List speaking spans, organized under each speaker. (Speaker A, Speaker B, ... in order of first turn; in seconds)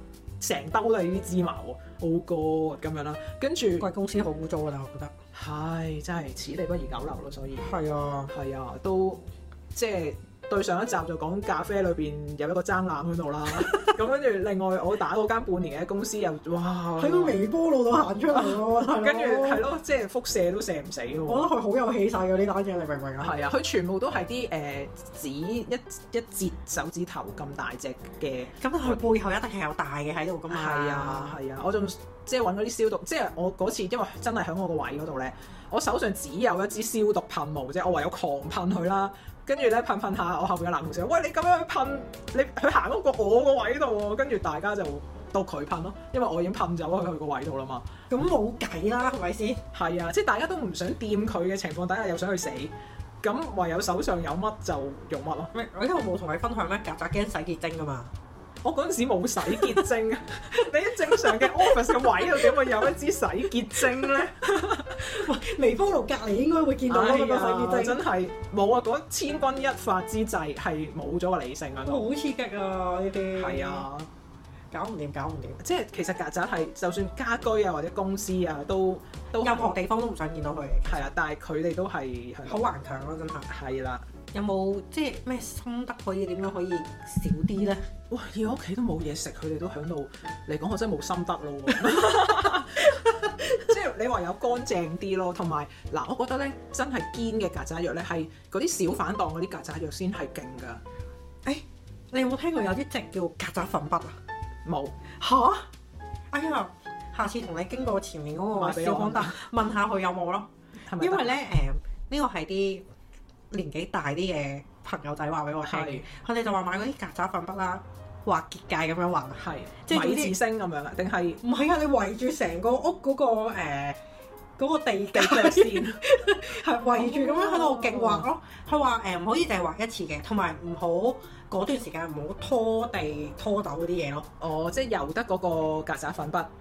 Speaker A: 0.4-3.9, 5.3-7.7, 8.3-17.4, 18.3-21.5, 23.2-29.0, 30.5-47.9, 49.7-55.5, 58.6-65.2, 66.9-72.0, 73.3-74.1, 75.6-79.7, 80.9-82.7, 83.5-84.0, 88.1-100.8, 104.6-105.0, 108.5-109.4, 110.9-111.4, 115.6-116.0, 119.4-121.4, 125.1-126.0, 126.9-128.3, 134.4-136.5
Speaker B: 3.8-5.1, 7.6-8.3, 13.5-14.0, 17.0-19.6, 21.3-23.4, 28.6-31.4, 48.1-49.6, 55.5-58.1, 59.4-59.9, 61.0-62.9, 63.8-64.2, 65.0-68.0, 71.8-73.9, 74.7-75.6, 79.4-81.0, 82.5-83.5, 84.3-87.9, 92.8-93.7, 101.4-104.2, 105.2-105.7, 106.3-112.8, 113.5-120.4, 121.4-124.0, 124.6-134.3